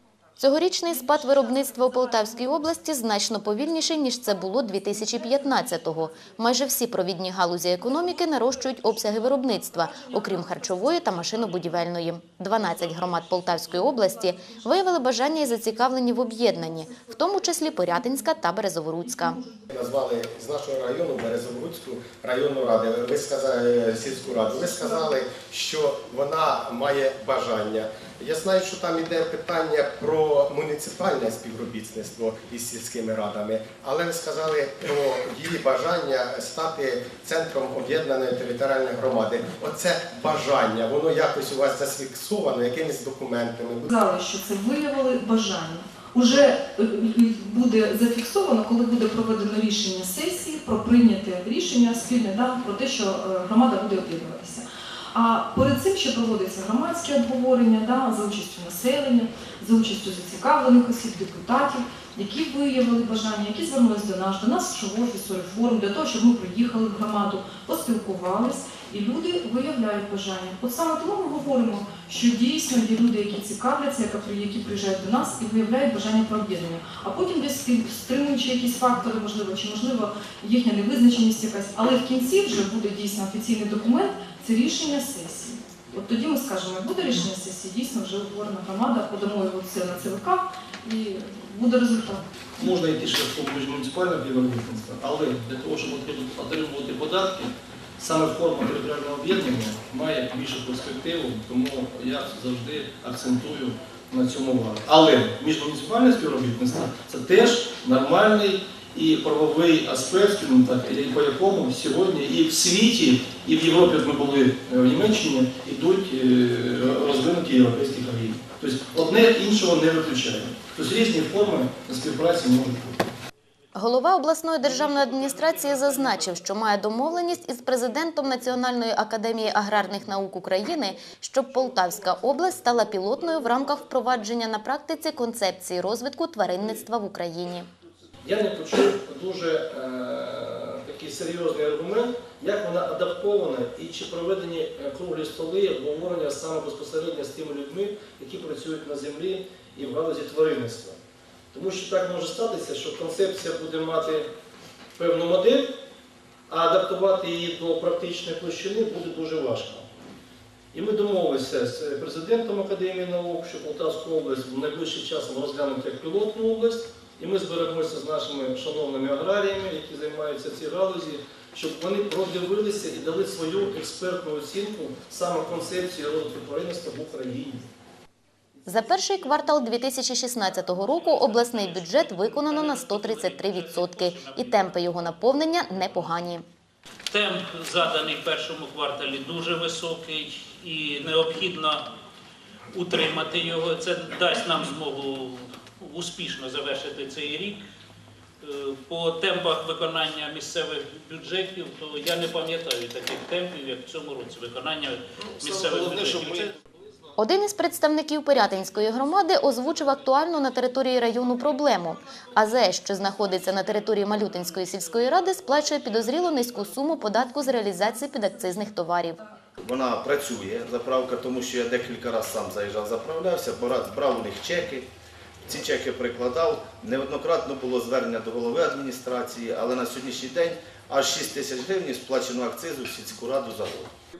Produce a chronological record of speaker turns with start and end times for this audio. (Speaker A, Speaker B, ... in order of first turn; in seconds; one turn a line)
Speaker A: 0.4-19.4
Speaker B: 19.7-43.9
Speaker C: 43.9-92.3
Speaker D: 92.5-123.0
Speaker A: 123.7-137.7
Speaker D: 138.2-151.0
Speaker D: 151.5-154.3
Speaker D: 155.0-155.7
Speaker D: 156.5-159.8
Speaker D: 160.7-177.7
Speaker A: 178.7-186.4
Speaker E: 180.7-184.8
Speaker E: 187.1-191.8
Speaker E: 192.7-197.6
Speaker E: 198.4-206.5
Speaker D: 205.4-206.4
Speaker A: 207.2-219.2
Speaker F: 219.6-224.9
Speaker F: 225.4-233.9